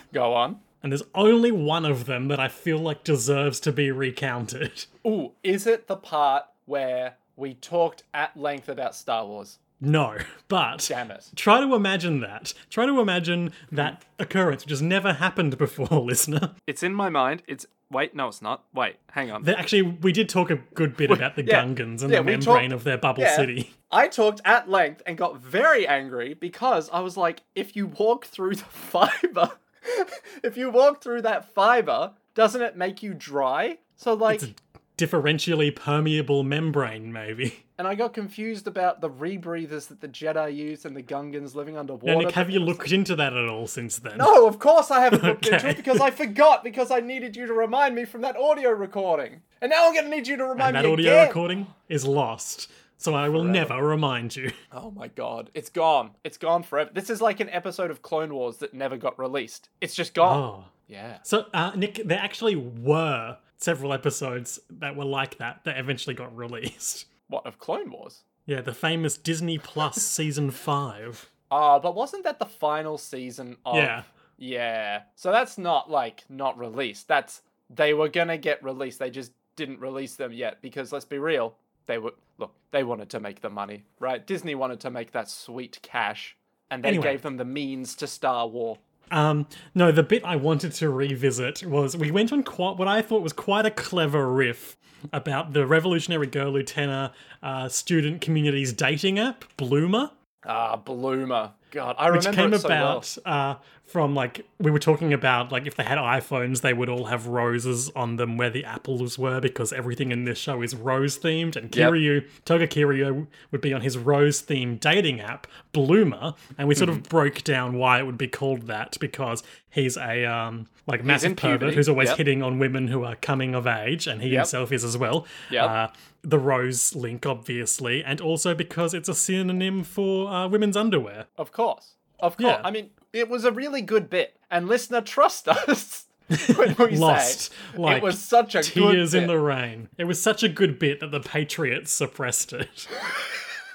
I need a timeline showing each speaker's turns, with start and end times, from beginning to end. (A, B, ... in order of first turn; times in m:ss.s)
0:00.1-0:00.6 A
0:00.8-0:04.9 B
0:05.0-0:09.6 A
0:09.8-0:16.5 B
0:10.9-0:11.3 A
0:16.7-0:19.5 A
0:19.4-0:23.7 B
0:21.1-0:34.5 A
0:34.3-0:37.6 B
0:37.8-0:42.8 A
0:42.0-0:44.4 B
0:44.1-0:51.4 A
0:45.1-0:46.1 B
0:50.6-0:54.5 B
0:53.3-0:53.7 A
0:54.7-1:01.2 A
1:00.2-1:00.7 B
1:01.2-1:07.1 B
1:07.3-1:08.2 A
1:08.5-1:11.3 B
1:11.5-1:28.8 A
1:13.7-1:14.1 B
1:26.8-1:27.2 B
1:29.1-1:40.1 B
1:40.4-1:43.1 A
1:42.1-2:11.3 B
1:51.7-1:52.0 A
1:56.8-1:57.0 A
2:01.0-2:02.2 A
2:11.4-2:19.3 A
2:12.4-2:12.7 B
2:16.3-2:22.9 B